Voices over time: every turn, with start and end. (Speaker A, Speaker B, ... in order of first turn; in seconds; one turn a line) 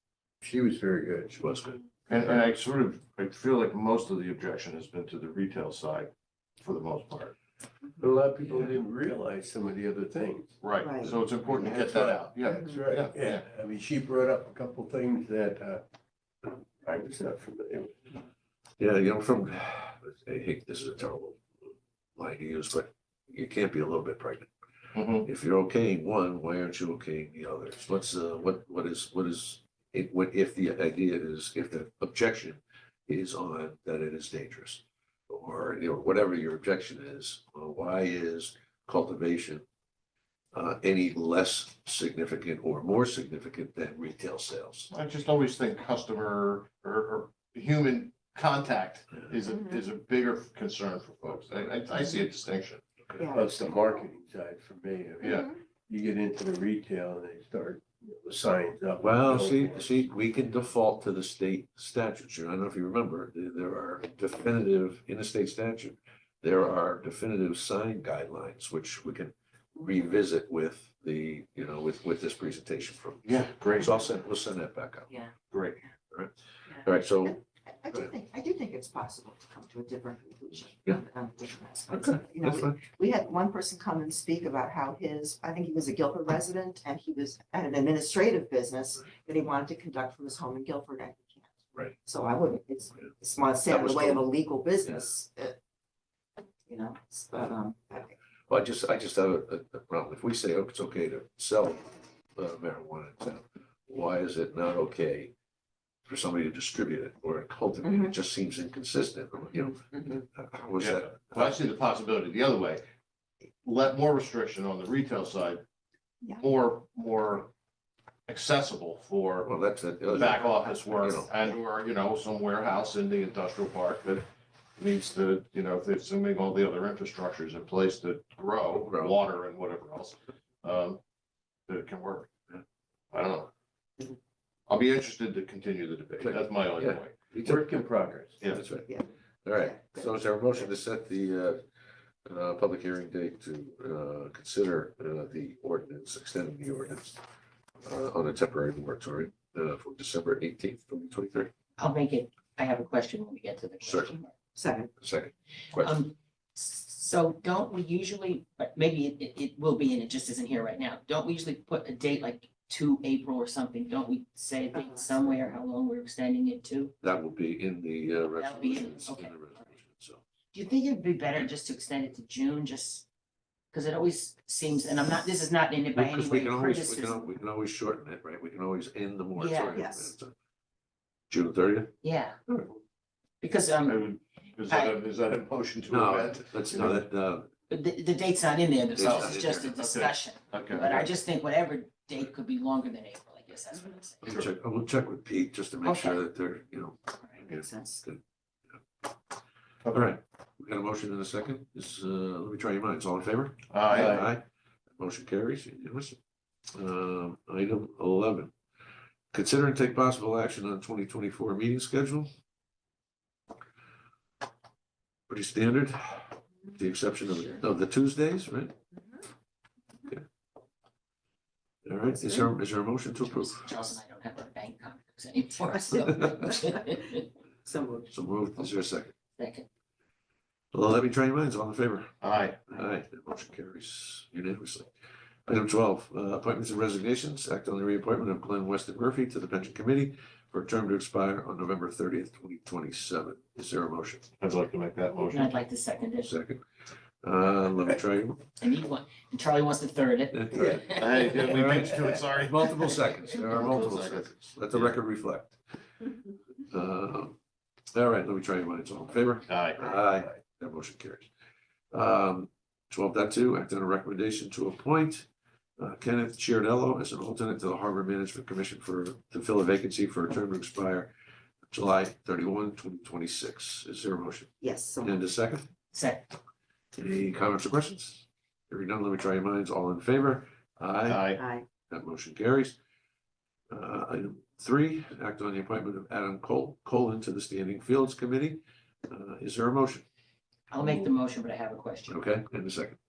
Speaker A: 0.4-1.4
Speaker B: 1.4-2.3
Speaker C: 2.1-7.3
Speaker A: 8.0-10.6
Speaker C: 10.6-13.4
Speaker D: 10.8-11.2
Speaker A: 11.4-15.8
Speaker D: 12.5-12.9
Speaker A: 16.4-18.2
Speaker B: 18.8-21.4
Speaker B: 22.2-24.5
Speaker C: 24.9-25.3
Speaker B: 25.2-39.6
Speaker B: 40.5-44.9
Speaker C: 44.9-52.8
Speaker D: 49.5-49.8
Speaker D: 51.9-52.2
Speaker D: 53.1-54.1
Speaker A: 53.3-59.9
Speaker D: 55.2-55.5
Speaker B: 59.0-75.2
Speaker C: 73.2-74.0
Speaker C: 75.5-75.8
Speaker B: 76.1-77.4
Speaker D: 77.2-91.5
Speaker B: 81.9-82.8
Speaker D: 92.0-95.5
Speaker B: 93.6-94.3
Speaker D: 96.7-98.1
Speaker B: 98.5-105.3
Speaker B: 106.0-111.6
Speaker D: 107.8-108.1
Speaker D: 109.9-110.2
Speaker C: 110.8-112.8
Speaker C: 113.6-115.6
Speaker C: 116.4-117.5
Speaker C: 118.3-119.5
Speaker B: 119.4-121.3
Speaker C: 120.2-131.0
Speaker B: 128.8-129.2
Speaker C: 131.7-132.3
Speaker C: 133.1-133.5
Speaker C: 134.7-137.2
Speaker B: 136.2-137.8
Speaker A: 137.4-138.4
Speaker C: 138.4-138.7
Speaker B: 138.5-138.9
Speaker D: 138.7-140.7
Speaker B: 139.4-141.6
Speaker B: 142.2-147.2
Speaker B: 147.8-151.5
Speaker E: 151.8-154.3
Speaker B: 153.8-154.1
Speaker D: 154.6-154.9
Speaker B: 155.0-156.0
Speaker E: 155.8-166.9
Speaker D: 164.7-165.0
Speaker B: 167.0-170.2
Speaker E: 168.3-169.5
Speaker E: 170.5-173.1
Speaker E: 173.7-177.3
Speaker B: 175.9-180.3
Speaker E: 179.4-179.8
Speaker D: 179.7-180.1
Speaker B: 181.3-182.8
Speaker E: 182.0-182.4
Speaker E: 183.4-184.1
Speaker C: 183.8-187.0
Speaker E: 184.7-184.9
Speaker B: 185.9-187.5
Speaker E: 187.7-194.2
Speaker B: 188.9-189.8
Speaker C: 189.0-191.1
Speaker B: 194.2-198.2
Speaker E: 195.8-196.2
Speaker E: 197.2-198.0
Speaker C: 199.8-200.1
Speaker B: 199.9-204.4
Speaker C: 203.7-204.1
Speaker A: 203.9-204.3
Speaker B: 204.9-206.2
Speaker B: 206.7-208.5
Speaker B: 209.3-212.3
Speaker B: 215.3-218.7
Speaker B: 221.8-223.7
Speaker E: 223.2-227.3
Speaker D: 227.6-228.1
Speaker B: 228.1-229.1
Speaker E: 229.4-229.7
Speaker B: 230.7-232.2
Speaker C: 232.2-232.7
Speaker B: 232.7-234.9
Speaker B: 235.5-244.3
Speaker C: 244.4-245.5
Speaker E: 245.3-246.3
Speaker B: 246.2-246.6
Speaker B: 247.2-248.4
Speaker E: 248.6-251.4
Speaker B: 250.3-255.6
Speaker C: 251.0-255.0
Speaker B: 256.7-257.4
Speaker B: 257.9-261.3
Speaker C: 259.5-259.9
Speaker A: 260.0-260.3
Speaker B: 261.9-265.2
Speaker B: 265.8-271.1
Speaker B: 271.7-275.7
Speaker D: 274.6-275.2
Speaker E: 275.9-276.2
Speaker B: 276.9-281.3
Speaker C: 281.1-281.4
Speaker D: 281.3-281.6
Speaker B: 281.9-282.8
Speaker B: 283.7-290.1
Speaker E: 290.7-292.2
Speaker A: 290.8-291.1
Speaker B: 292.1-293.0